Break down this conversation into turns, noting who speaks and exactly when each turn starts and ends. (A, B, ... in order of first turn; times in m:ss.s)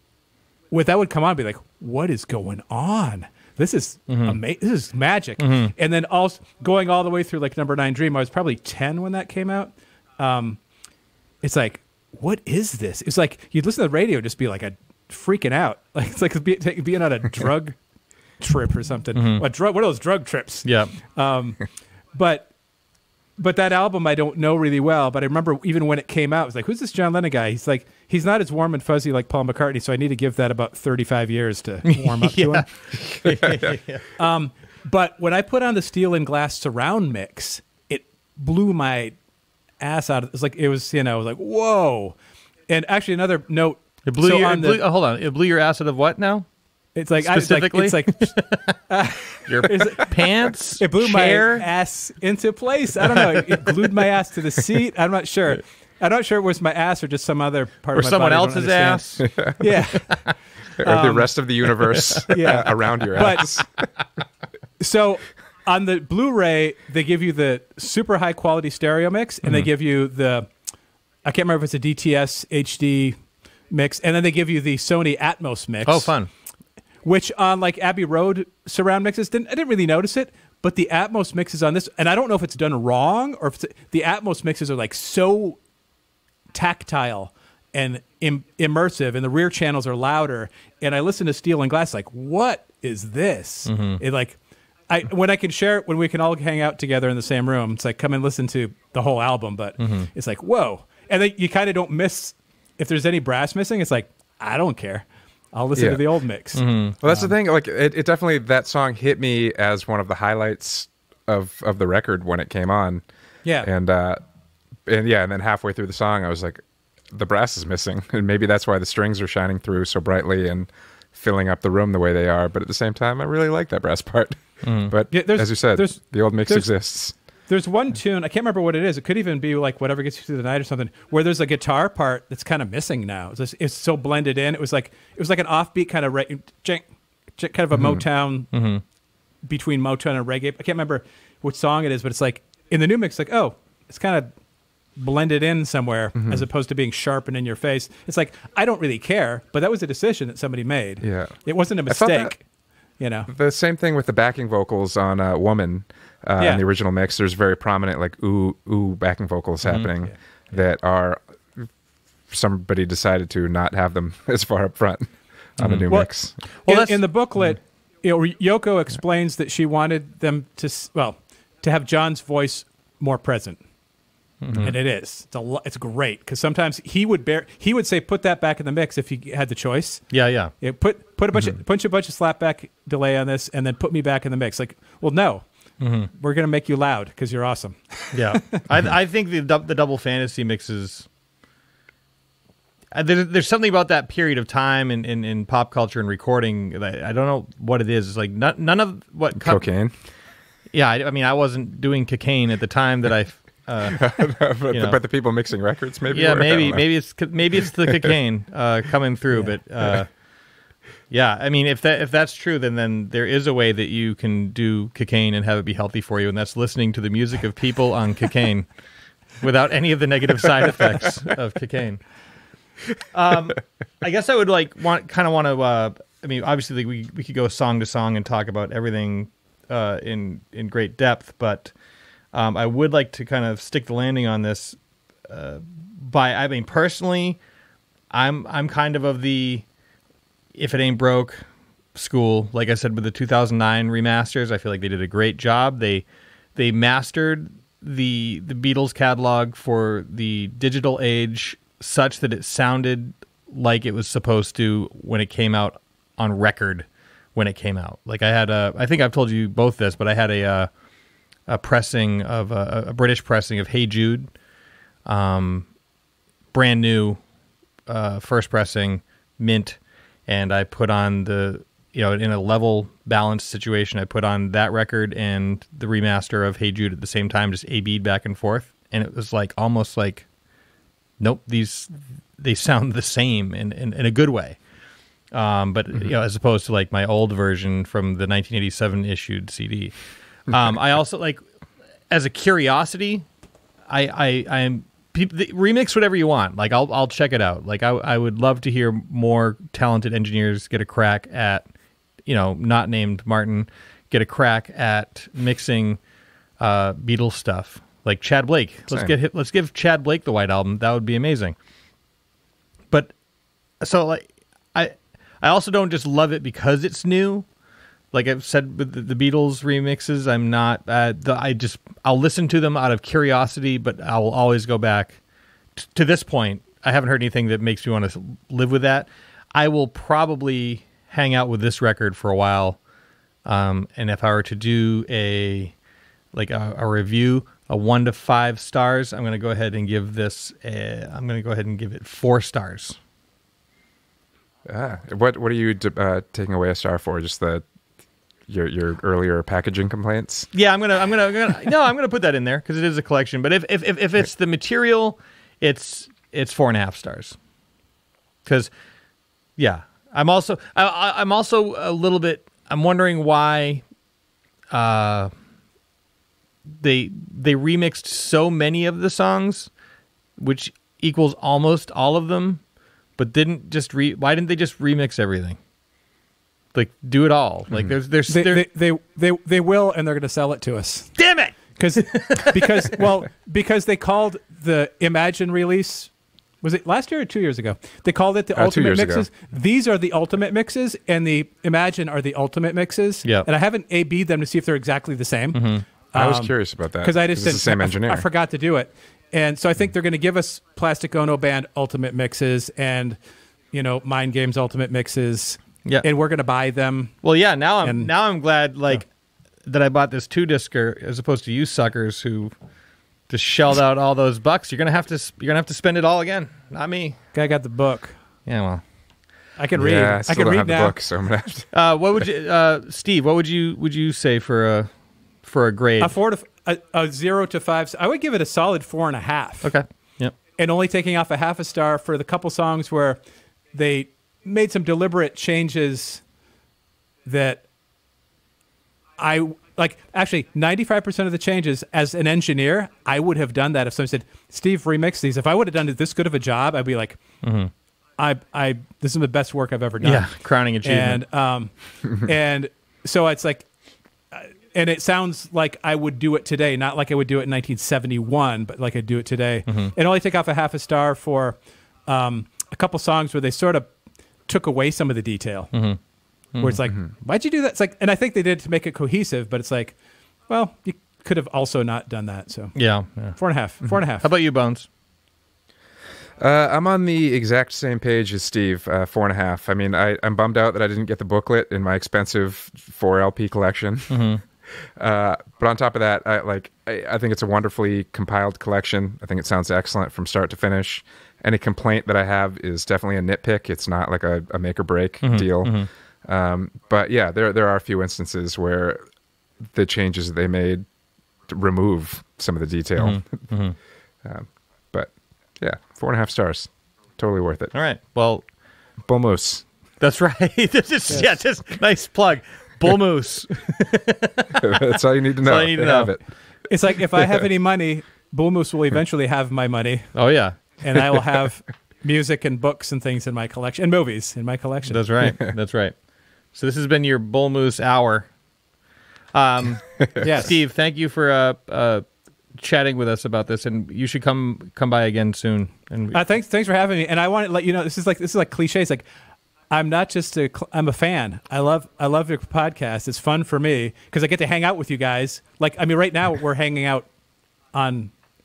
0:00.7-0:10.6 A
0:04.1-0:04.4 B
0:05.4-0:05.7 B
0:11.4-0:17.8 A
0:18.4-0:22.5 A
0:19.1-0:19.4 B
0:20.6-0:20.9 B
0:23.4-0:32.7 A
0:31.8-0:34.0 B
0:33.2-0:33.7 C
0:34.2-0:39.2 A
0:39.8-0:42.1 A
0:42.7-0:44.8 A
0:44.1-0:46.4 B
0:47.0-1:01.3 A
0:47.2-0:48.8 B
0:49.4-0:51.7 B
0:53.0-0:54.1 B
0:57.9-0:59.3 B
0:59.2-0:59.8 C
1:00.8-1:03.6 C
1:01.9-1:02.3 B
1:02.3-1:03.6 A
1:04.8-1:10.5 A
1:11.2-1:13.2 A
1:13.7-1:16.1 A
1:15.8-1:16.3 B
1:17.0-1:25.6 A
1:26.5-1:34.4 A
1:33.6-1:34.0 B
1:34.9-1:47.3 A
1:39.8-1:40.1 B
1:45.8-1:46.0 C
1:46.5-1:47.0 B
1:47.0-1:53.0 C
1:53.6-1:54.2 C
1:54.9-2:07.1 C
2:04.6-2:04.9 B
2:05.1-2:06.7 A
2:07.5-2:16.8 A
2:17.4-2:18.5 A
2:17.7-2:18.0 C
2:18.5-2:18.8 B
2:19.4-2:24.3 A
2:25.0-2:32.4 A
2:26.2-2:26.5 C
2:31.0-2:31.3 C
2:31.9-2:32.3 C
2:33.0-2:33.3 A
2:33.3-2:41.7 C
2:42.3-2:46.4 C
2:46.6-2:47.0 B
2:46.6-2:53.6 A
2:54.4-2:54.7 B
2:54.6-3:00.1 A
3:00.1-3:00.5 B
3:00.6-3:05.4 A
3:05.8-3:06.1 B
3:06.1-3:08.6 A
3:08.1-3:11.1 B
3:12.9-3:19.7 B
3:19.4-3:19.9 C
3:20.7-3:24.0 B
3:23.9-3:26.9 C
3:24.7-3:25.0 B
3:26.1-3:30.1 B
3:27.9-3:28.1 C
3:31.1-3:38.7 B
3:39.4-3:42.0 B
3:43.1-3:51.7 B
3:52.3-3:57.4 B
3:58.1-3:59.6 B
4:00.6-4:06.0 B
4:06.6-4:20.7 B
4:21.5-4:24.3 B
4:25.0-4:25.7 B
4:26.5-4:27.2 B
4:27.9-4:40.3 B
4:41.2-4:44.6 B
4:45.3-4:49.9 B
4:50.5-4:51.4 B
4:52.1-4:53.2 B
4:53.9-5:01.6 B
5:02.2-5:06.0 B
5:06.6-5:11.6 B
5:13.8-5:17.4 B
5:18.1-5:25.2 B
5:25.8-5:32.8 B
5:33.4-5:35.7 B
5:36.3-5:43.0 B
5:44.6-5:47.6 C
5:48.5-5:50.5 C
5:50.5-5:57.4 B
5:58.4-5:58.7 B
5:59.6-6:03.8 B
6:04.7-6:05.3 B
6:06.7-6:09.7 B
6:10.4-6:12.6 B
6:13.2-6:15.6 B
6:16.7-6:18.6 B
6:18.3-6:21.2 A
6:21.2-6:22.9 B
6:21.8-6:26.1 A
6:26.6-6:43.2 A
6:28.6-6:29.3 C
6:35.5-6:35.8 B
6:36.1-6:38.3 C
6:43.7-6:47.2 A
6:47.2-6:49.0 B
6:47.8-6:48.1 A
6:49.6-6:52.5 B
6:53.3-6:57.2 B
6:57.3-6:58.2 A
6:58.4-6:58.8 B
6:59.6-7:00.9 A
6:59.8-7:01.7 C
7:01.7-7:04.9 B
7:05.4-7:06.1 B
7:06.0-7:09.7 A
7:09.6-7:10.3 B
7:10.6-7:13.2 A
7:13.7-7:16.2 A
7:17.2-7:17.6 A
7:19.2-7:27.2 A
7:27.4-7:27.7 B
7:28.2-7:33.6 A
7:30.0-7:31.2 B
7:34.3-7:43.9 A
7:39.7-7:39.9 B
7:44.5-7:45.7 A
7:45.7-7:46.0 B
7:46.6-7:46.8 B
7:46.6-7:49.9 A
7:50.5-7:52.7 A
7:52.7-7:54.9 B
7:53.4-7:54.3 A
7:56.4-8:19.0 C
8:04.1-8:04.4 B
8:15.2-8:15.9 B
8:19.6-8:20.9 C
8:21.5-8:23.5 C
8:23.0-8:23.8 B
8:24.2-8:27.7 C
8:27.7-8:28.4 B
8:29.0-8:29.6 C
8:30.0-8:36.2 B
8:34.6-8:36.2 C
8:36.7-8:40.2 A
8:37.1-8:37.5 C
8:40.1-8:40.6 B
8:40.8-8:45.0 A
8:44.8-8:45.9 B
8:46.5-8:48.3 B
8:49.3-8:56.2 B
8:50.0-8:50.2 C
8:50.2-8:50.6 A
8:56.1-8:59.0 A
8:59.7-9:07.1 A
9:07.7-9:08.1 A